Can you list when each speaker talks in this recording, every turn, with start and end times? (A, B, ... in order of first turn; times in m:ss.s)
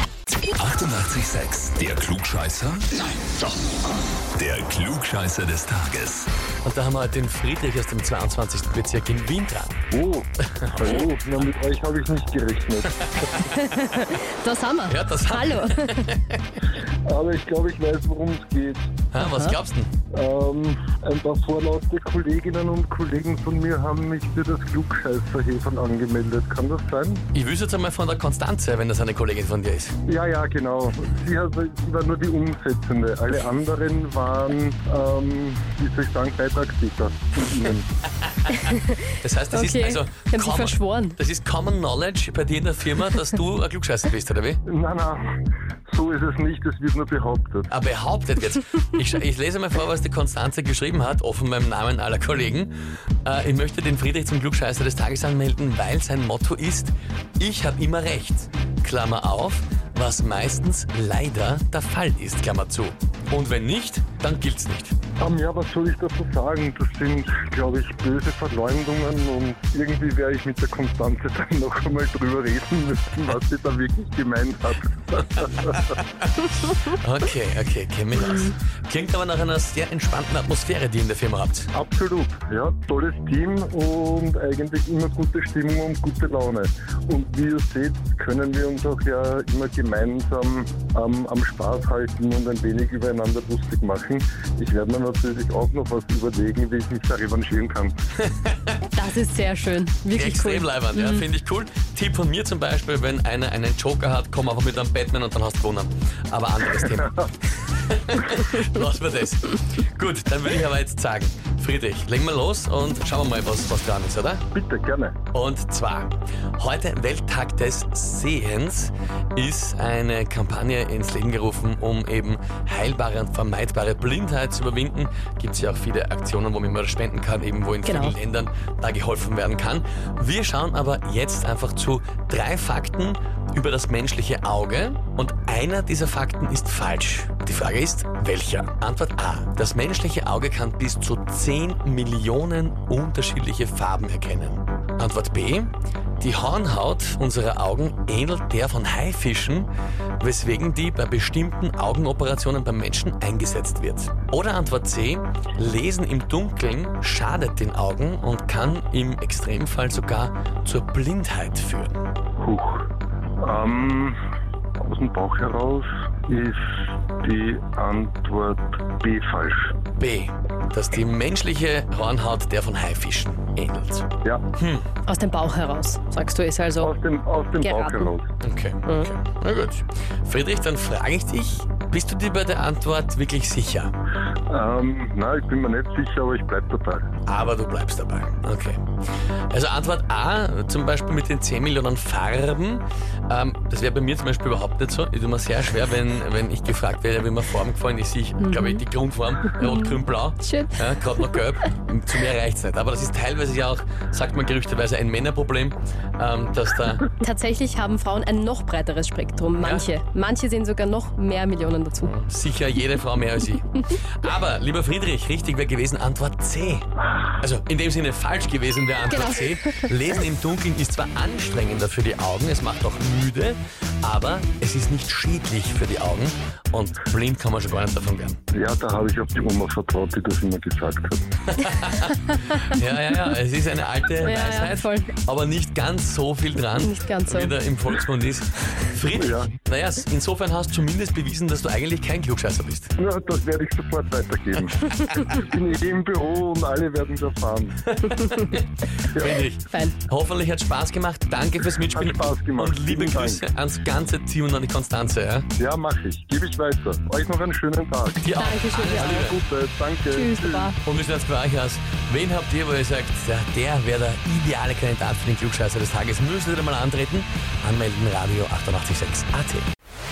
0:00.5-0:03.1 A
0:04.4-0:06.3 A
0:06.6-0:09.8 B
0:09.9-0:13.0 C
0:13.0-0:13.6 B
0:13.5-0:16.0 D
0:14.9-0:16.6 B
0:17.0-0:18.9 C
0:19.1-0:19.9 B
0:19.2-0:19.6 D
0:20.1-0:27.2 C
0:27.3-0:30.0 B
0:30.1-0:37.9 C
0:38.4-0:44.6 B
0:38.7-0:39.0 D
0:39.5-0:41.2 D
0:44.6-0:45.2 C
0:45.9-0:47.7 C
0:47.7-1:05.0 B
1:05.2-1:16.0 C
1:16.4-1:21.7 B
1:21.7-1:38.0 C
1:38.2-1:38.8 B
1:38.9-1:41.2 D
1:40.2-1:54.4 B
1:54.5-1:55.2 C
1:55.3-2:42.0 B
2:07.8-2:08.1 D
2:42.4-2:44.2 C
2:44.8-2:49.7 C
2:50.0-2:54.9 B
2:55.1-2:56.9 D
2:56.8-2:58.3 C
2:57.6-2:58.1 D
2:58.4-3:03.9 B
3:04.5-3:07.1 C
3:07.3-3:08.8 B
3:09.5-3:27.1 B
3:18.4-3:18.8 D
3:19.6-3:20.8 D
3:27.2-3:32.1 D
3:29.6-3:29.9 B
3:32.0-3:48.4 B
3:39.1-3:39.6 D
3:48.5-3:51.2 C
3:51.5-4:02.9 B
3:54.2-3:55.1 D
3:56.8-3:57.5 D
3:59.2-3:59.5 C
4:03.0-4:07.8 C
4:07.9-4:15.5 B
4:09.1-4:09.4 C
4:11.9-4:13.4 C
4:15.6-4:18.2 C
4:18.2-4:19.4 B
4:18.4-4:19.4 D
4:18.9-4:20.7 C
4:20.1-4:20.8 D
4:20.8-4:29.7 B